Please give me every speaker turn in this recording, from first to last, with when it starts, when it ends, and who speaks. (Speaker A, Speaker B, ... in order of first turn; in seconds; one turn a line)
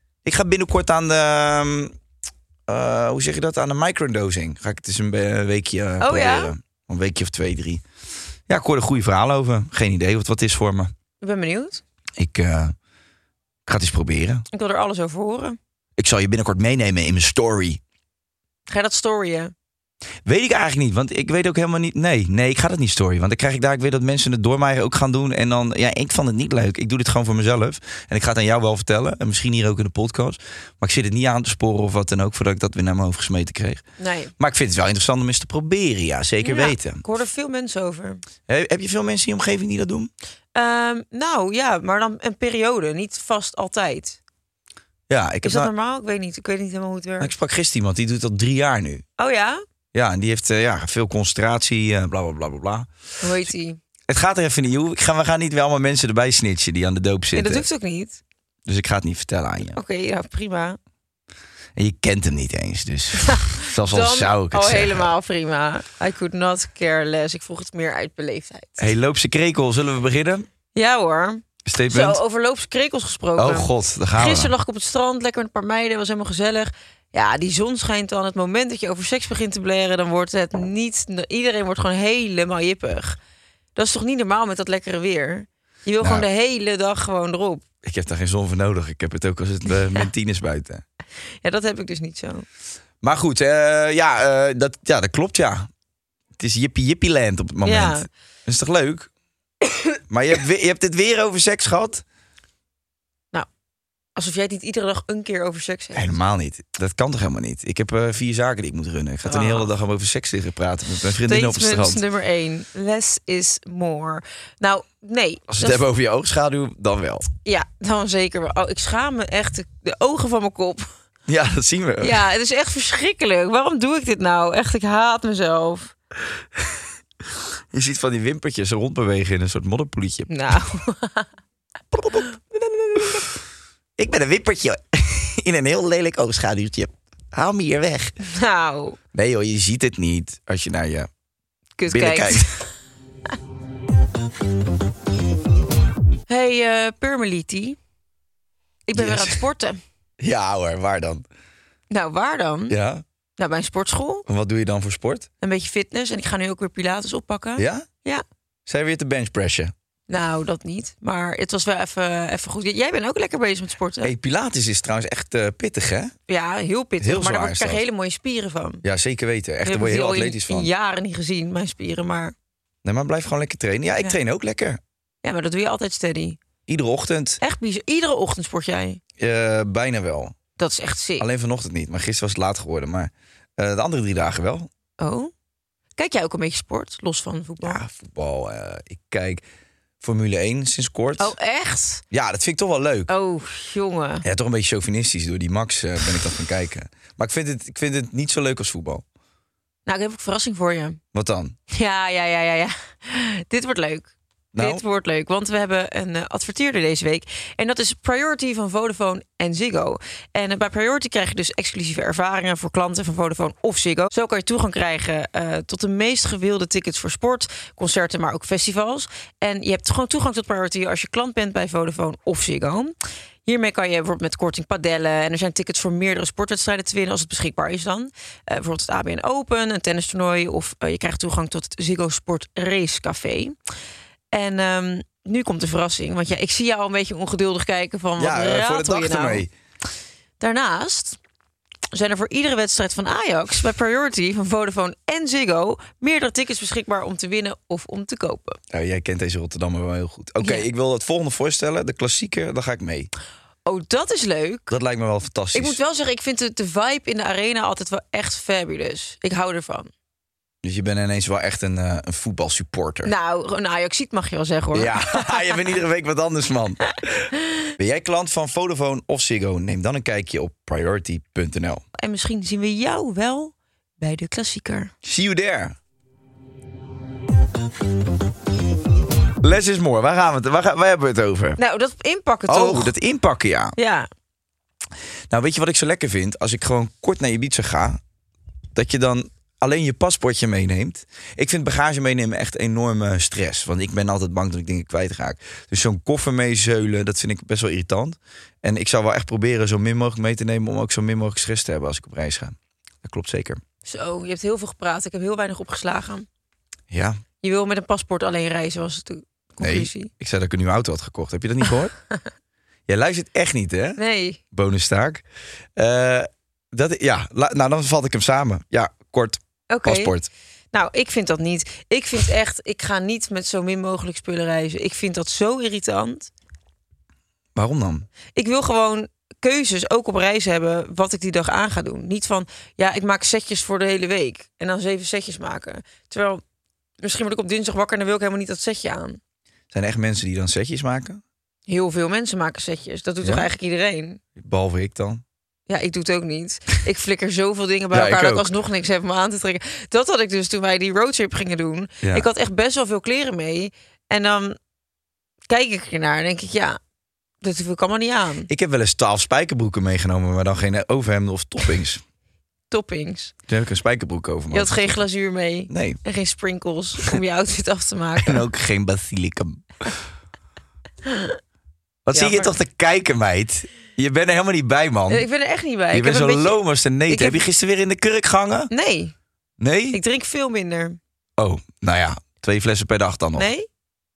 Speaker A: 0.2-1.9
Speaker A: 2.7-7.8
Speaker B: 6.0-6.5
Speaker A: 8.5-10.9
Speaker B: 11.2-11.8
Speaker A: 12.2-12.7
Speaker A: 13.7-14.4
Speaker B: 14.5-15.6
Speaker A: 16.0-17.8
Speaker B: 18.7-19.5
Speaker A: 20.2-33.8
Speaker B: 34.0-34.3
Speaker A: 34.4-37.0
Speaker B: 36.4-38.2
Speaker A: 38.5-40.1
Speaker B: 40.5-44.2
Speaker A: 45.1-45.7
Speaker B: 45.4-47.3
Speaker A: 47.2-49.0
Speaker B: 49.2-49.6
Speaker A: 49.9-53.5
Speaker B: 53.2-53.8
Speaker A: 54.1-57.6
Speaker B: 57.3-58.2
Speaker A: 58.6-59.8
Speaker B: 59.7-60.8
Speaker A: 61.8-65.1
Speaker B: 63.2-68.9
Speaker A: 68.8-70.5
Speaker B: 70.7-83.2
Speaker A: 71.6-72.2
Speaker A: 73.4-74.5
Speaker B: 83.8-87.6
Speaker A: 87.8-90.8
Speaker B: 91.4-92.5
Speaker A: 93.0-95.7
Speaker A: 96.4-99.1
Speaker B: 97.6-98.1
Speaker A: 100.1-102.0
Speaker B: 104.2-106.2
Speaker A: 105.9-112.0
Speaker B: 109.2-109.7
Speaker B: 111.2-115.8
Speaker A: 115.5-117.3
Speaker B: 117.4-120.9
Speaker A: 121.3-122.2
Speaker B: 122.0-125.9
Speaker A: 127.7-130.3
Speaker B: 130.3-131.3
Speaker A: 131.9-132.3
Speaker A: 132.9-133.2
Speaker A: 134.0-138.2
Speaker B: 138.2-139.0
Speaker A: 139.1-141.1
Speaker B: 141.8-142.5
Speaker A: 141.9-142.5
Speaker B: 146.3-147.8
Speaker B: 148.9-149.8
Speaker A: 148.9-149.4
Speaker A: 150.2-151.2
Speaker B: 151.9-152.8
Speaker A: 152.7-153.0
Speaker B: 153.4-154.2
Speaker A: 154.2-155.3
Speaker B: 155.4-158.2
Speaker A: 157.6-157.8
Speaker A: 158.7-159.7
Speaker B: 160.1-164.1
Speaker A: 164.0-166.1
Speaker B: 166.3-168.8
Speaker A: 167.0-167.8
Speaker A: 168.8-170.7
Speaker B: 169.6-172.3
Speaker A: 172.8-174.8
Speaker B: 175.2-176.4
Speaker A: 176.7-177.4
Speaker B: 177.4-179.0
Speaker A: 179.2-180.3
Speaker B: 180.6-181.2
Speaker A: 181.2-184.7
Speaker B: 185.0-185.3
Speaker B: 186.0-187.8
Speaker A: 187.6-189.4
Speaker A: 190.0-191.3
Speaker B: 191.2-192.0
Speaker A: 192.1-193.1
Speaker B: 193.1-194.2
Speaker A: 194.2-199.0
Speaker B: 199.8-201.0
Speaker A: 201.1-201.6
Speaker B: 201.7-222.9
Speaker A: 204.5-204.8
Speaker B: 223.4-233.6
Speaker B: 234.3-239.4
Speaker A: 238.2-239.5
Speaker B: 240.4-241.2
Speaker B: 241.9-248.6
Speaker A: 248.7-253.1
Speaker B: 250.4-250.7
Speaker B: 253.7-254.7
Speaker A: 254.7-255.8
Speaker B: 255.5-259.9
Speaker A: 260.6-263.1
Speaker B: 263.0-265.5
Speaker A: 264.7-271.8
Speaker B: 272.0-274.9
Speaker A: 275.0-275.8
Speaker A: 279.4-281.6
Speaker B: 281.6-282.9
Speaker A: 282.5-283.8
Speaker B: 283.8-284.1
Speaker A: 285.3-288.0
Speaker A: 288.7-303.6
Speaker B: 303.9-306.3
Speaker A: 306.9-307.2
Speaker B: 307.4-310.1
Speaker A: 309.6-311.9
Speaker A: 312.9-314.0
Speaker B: 314.0-314.4
Speaker A: 314.5-315.2
Speaker A: 315.8-320.3
Speaker B: 319.7-320.1
Speaker B: 320.7-326.3
Speaker A: 327.5-328.1
Speaker B: 328.3-336.4
Speaker B: 337.0-339.2
Speaker A: 339.7-341.2
Speaker B: 341.7-344.2
Speaker A: 343.2-343.5
Speaker A: 344.4-345.2
Speaker B: 345.7-354.6
Speaker A: 347.9-348.5
Speaker A: 352.0-352.3
Speaker B: 355.5-356.8
Speaker B: 357.4-358.5
Speaker A: 358.5-362.0
Speaker B: 362.7-363.3
Speaker A: 363.5-365.0
Speaker B: 364.5-368.4
Speaker A: 365.7-366.0
Speaker A: 368.2-369.9
Speaker B: 371.0-371.4
Speaker A: 372.1-375.3
Speaker B: 372.1-372.5
Speaker B: 375.1-377.4
Speaker A: 375.9-378.7
Speaker B: 378.7-379.1
Speaker A: 379.6-380.0
Speaker B: 379.9-381.0
Speaker A: 381.4-383.5
Speaker B: 383.4-383.7